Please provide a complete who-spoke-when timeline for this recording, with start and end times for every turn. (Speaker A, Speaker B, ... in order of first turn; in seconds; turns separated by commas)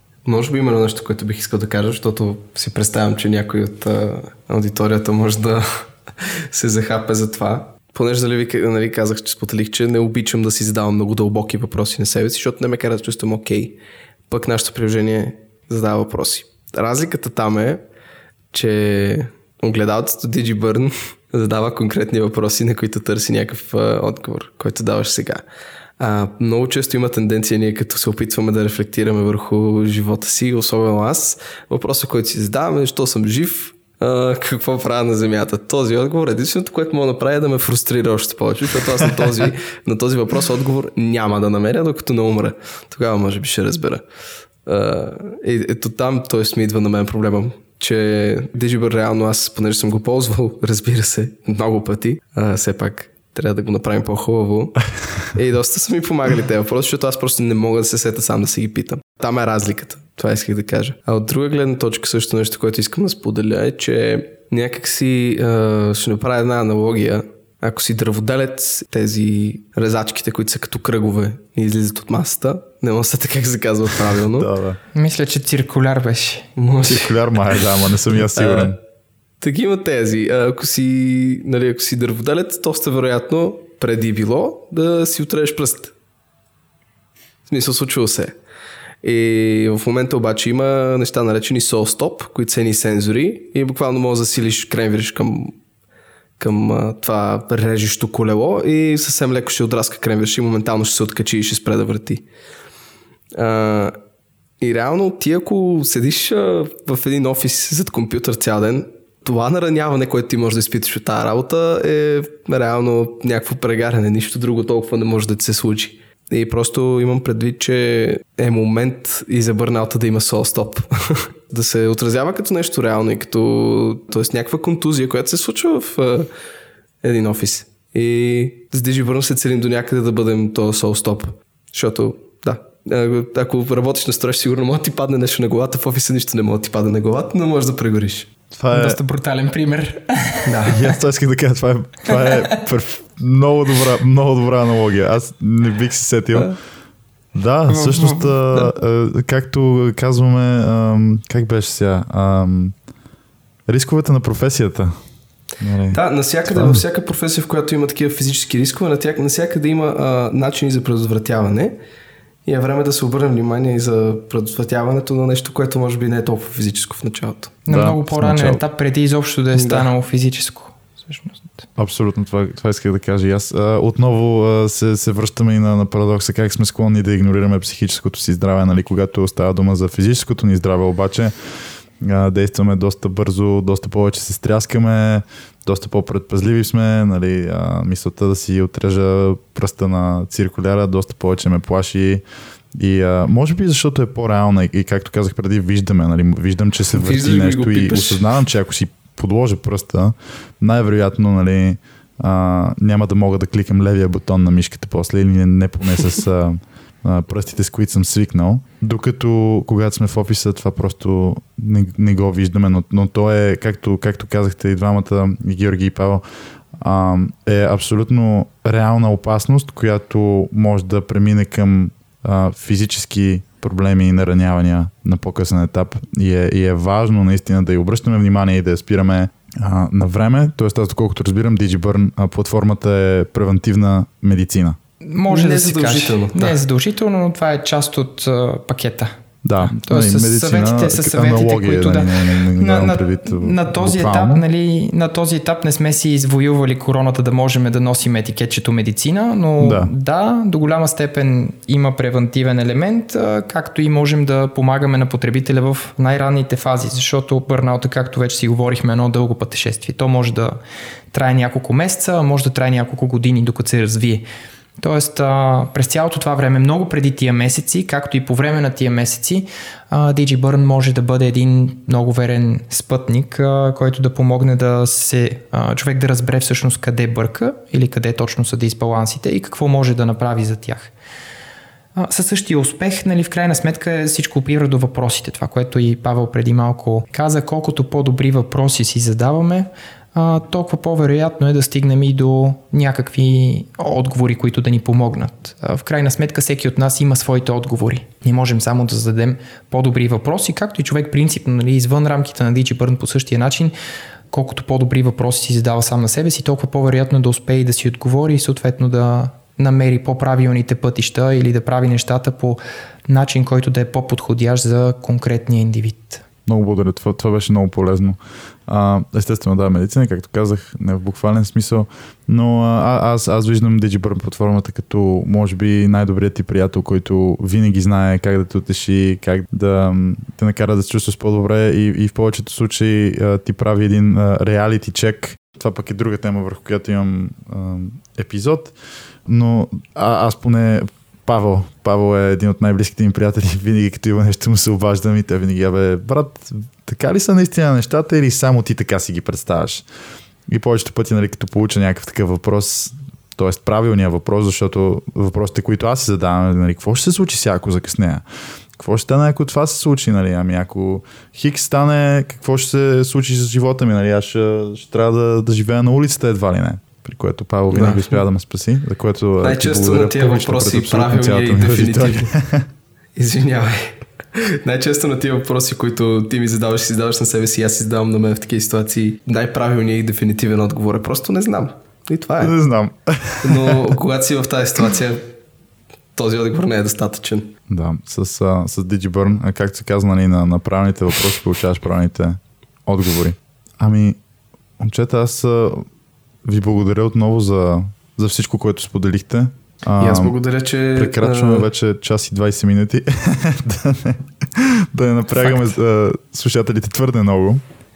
Speaker A: 0.2-13.8, Speaker A: 14.3-17.8, Speaker A: 18.5-25.4, Speaker A: 26.0-44.0, Speaker A: 44.6-74.5, Speaker B: 74.3-74.8, Speaker C: 74.9-76.5, Speaker A: 76.6-77.6, Speaker B: 76.8-78.8, Speaker A: 78.3-78.7, Speaker A: 79.4-85.9, Speaker A: 87.5-88.3, Speaker A: 89.0-95.5, Speaker A: 96.4-102.2, Speaker A: 103.3-104.0, Speaker A: 104.6-126.3, Speaker A: 127.0-138.3, Speaker B: 138.5-139.0, Speaker C: 138.7-140.7, Speaker A: 140.4-140.8, Speaker B: 140.7-146.5, Speaker C: 142.1-142.5, Speaker B: 147.3-152.7, Speaker C: 147.7-148.5, Speaker B: 153.7-154.9, Speaker B: 155.6-156.8, Speaker A: 155.9-161.8, Speaker A: 162.4-167.6, Speaker C: 167.7-171.7, Speaker B: 167.7-168.6, Speaker A: 169.5-169.9, Speaker B: 171.8-181.3, Speaker B: 182.0-192.2, Speaker B: 192.8-216.2, Speaker A: 196.9-198.3, Speaker B: 216.8-234.8, Speaker C: 235.0-260.6, Speaker A: 235.3-236.6, Speaker B: 239.4-244.4, Speaker B: 249.6-249.9, Speaker C: 261.1-264.2, Speaker C: 264.8-280.9, Speaker C: 281.9-303.7, Speaker C: 304.3-316.2, Speaker B: 316.4-338.7, Speaker B: 339.2-349.8, Speaker B: 350.5-358.2, Speaker B: 358.8-372.7, Speaker A: 367.7-368.2, Speaker A: 369.4-372.3, Speaker A: 373.1-382.6, Speaker B: 382.4-384.0, Speaker A: 383.4-385.3, Speaker A: 386.1-387.5, Speaker B: 387.7-394.2, Speaker B: 394.8-395.9, Speaker B: 396.4-400.3, Speaker A: 400.0-401.7, Speaker B: 400.9-407.6, Speaker C: 405.4-405.7